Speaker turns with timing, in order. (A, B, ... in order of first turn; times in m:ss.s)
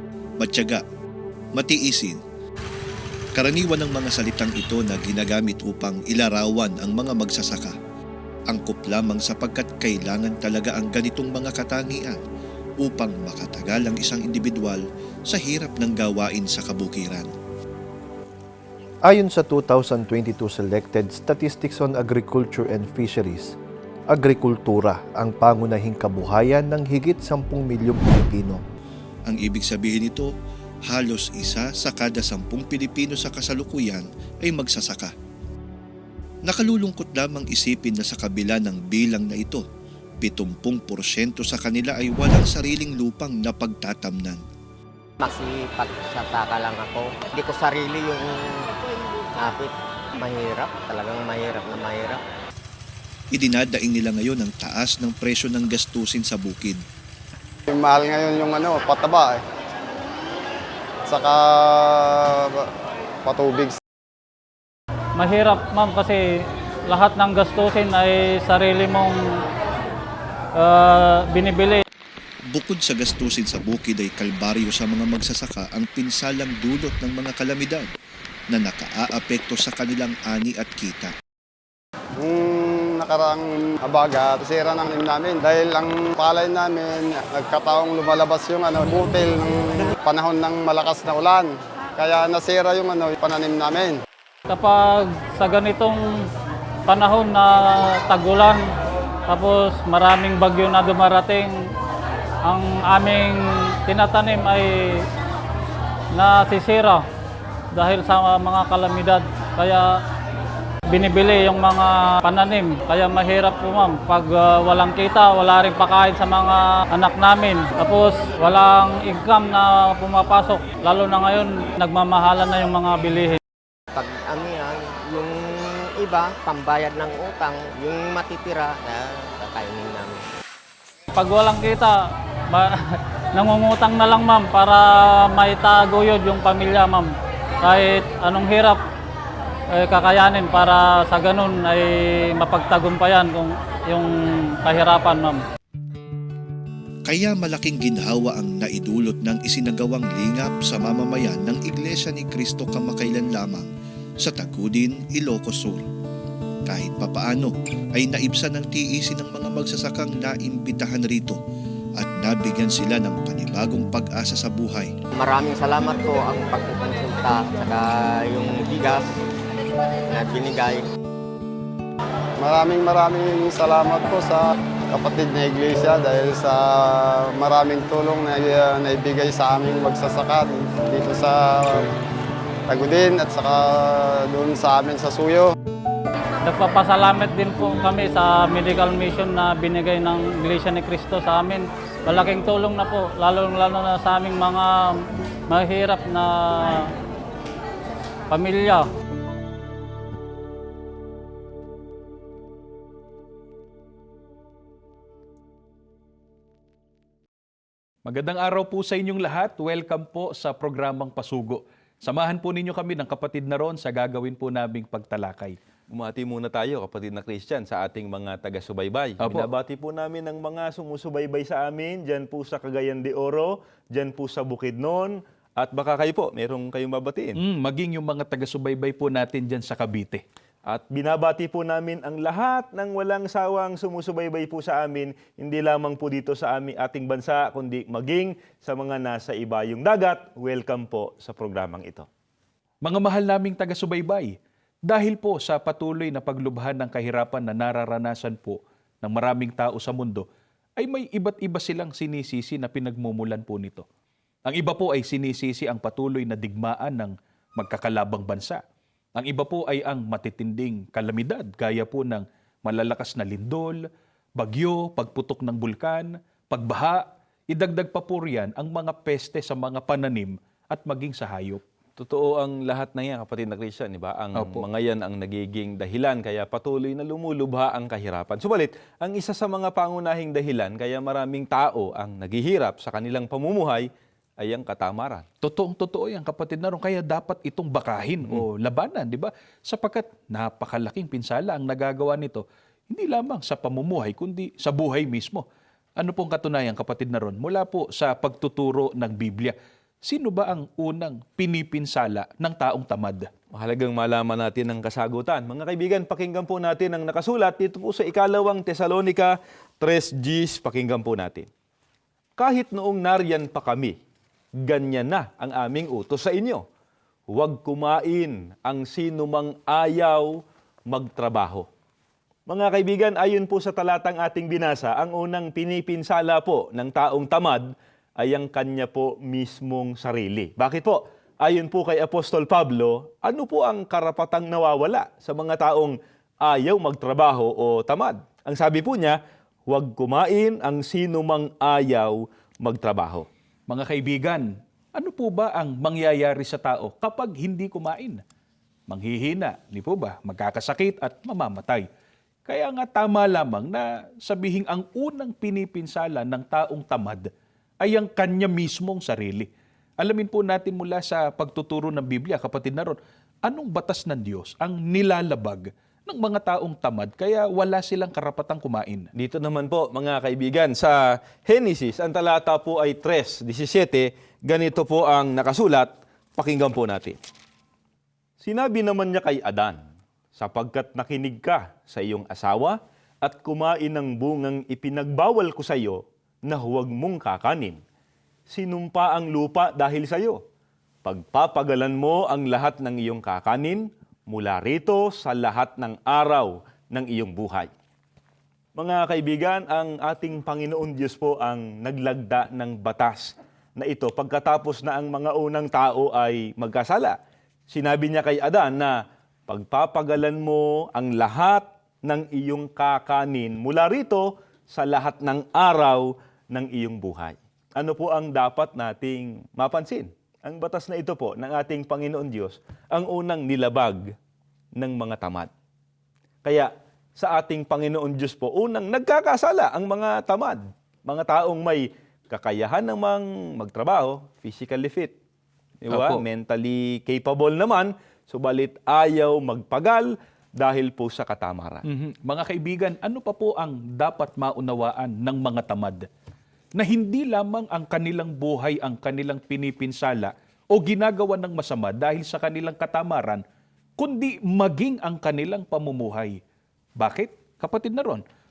0:00.4-0:00.8 A
0:01.5-0:02.2 A
0:03.4-0:07.8 A
0:08.5-0:12.2 A
0:12.8-0:17.3 A
0:19.0-0:23.5 B
0:24.1-0:28.6 B
0:29.3-0:30.3 A
0:30.9-0:35.1 A
0:36.5-0:39.6 A
0:40.2-0:44.4 A
0:45.2-0:48.7 C
0:49.4-0:52.2 C
0:53.3-0:56.8 A
0:57.7-0:59.4 D
1:01.1-1:02.7 D
1:03.2-1:03.8 D
1:05.2-1:09.3 E
1:10.6-1:11.8 E
1:12.5-1:17.9 A
1:18.5-1:21.1 A
1:22.2-1:34.0 D
1:34.5-1:36.2 E
1:36.9-1:38.7 E
1:39.3-1:41.6 E
1:42.4-1:45.0 E
1:46.1-1:47.0 E
1:47.7-1:50.0 E
1:50.9-2:03.4 E
2:03.9-2:10.3 C
2:11.2-2:18.8 E
2:19.7-2:25.4 E
2:27.1-2:33.7 A
2:34.2-2:35.8 A
2:36.7-2:41.4 A
2:42.0-2:44.9 A
2:45.2-2:49.2 C
2:50.1-2:50.9 C
2:52.4-3:01.8 D
3:02.7-3:05.5 D
3:06.4-3:16.9 E
3:18.3-3:18.9 E
3:28.0-3:35.6 F
3:35.9-3:47.4 G
3:39.2-3:39.5 F
3:47.4-3:50.2 F
3:50.7-4:02.1 G
4:02.8-4:04.4 F
4:04.9-4:10.3 F
4:10.8-4:13.8 F
4:14.5-4:18.6 F
4:19.2-4:23.8 F
4:24.4-4:31.6 F
4:32.0-4:43.9 G
4:34.4-4:34.6 F
4:44.4-4:45.2 G
4:45.4-4:55.4 F
4:56.0-5:03.3 F
5:03.5-5:11.5 G
5:12.4-5:14.0 G
5:14.6-5:16.6 G
5:17.3-5:20.4 G
5:20.9-5:21.7 G
5:22.5-5:27.7 G
5:28.2-5:43.3 G
5:43.7-5:48.2 F
5:48.9-5:51.9 F
5:52.5-5:57.3 F
5:57.8-5:59.5 F
6:00.0-6:09.1 F
6:09.2-6:17.2 G
6:18.4-6:19.8 G
6:20.4-6:27.8 G
6:28.5-6:30.4 G
6:31.0-6:37.7 G
6:38.8-6:47.2 G
6:47.7-6:49.0 G
6:49.5-7:04.0 G
7:04.8-7:05.5 G
7:06.4-7:15.2 G
7:15.8-7:21.8 G
7:15.9-7:16.2 F
7:21.8-7:26.1 F
7:26.8-7:33.4 F
7:34.0-7:36.4 F
7:37.0-7:38.2 F